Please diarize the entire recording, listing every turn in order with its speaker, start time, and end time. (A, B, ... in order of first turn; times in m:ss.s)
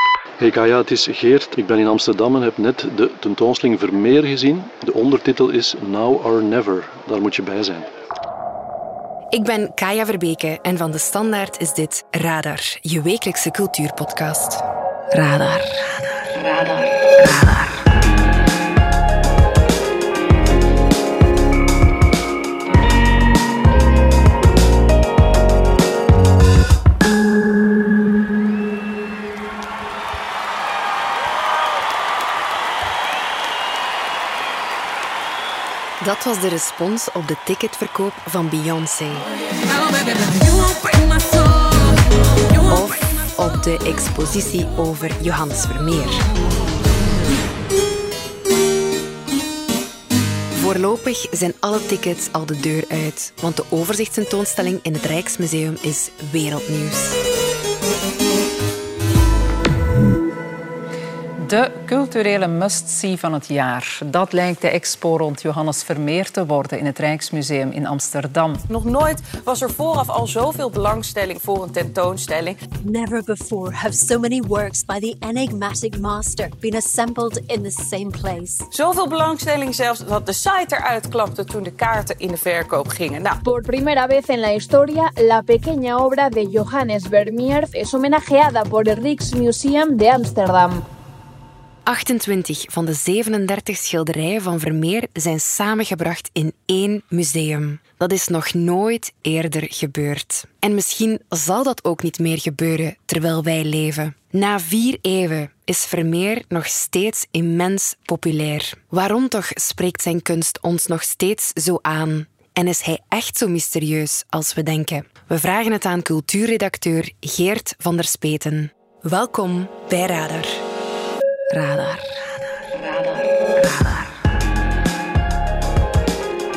0:00.4-0:07.9 A
0:09.3-0:15.7 B
0:17.2-0:17.8 B
0:36.0-0:39.3 B
0:42.6-0:46.2 B
0:50.5-0:57.2 B
1:01.4-1:08.6 C
1:08.7-1:12.6 D
1:12.8-1:18.7 E
1:18.7-1:23.4 D
1:23.4-1:30.8 F
1:31.9-2:00.6 B
2:01.5-2:02.1 B
2:03.4-2:04.1 B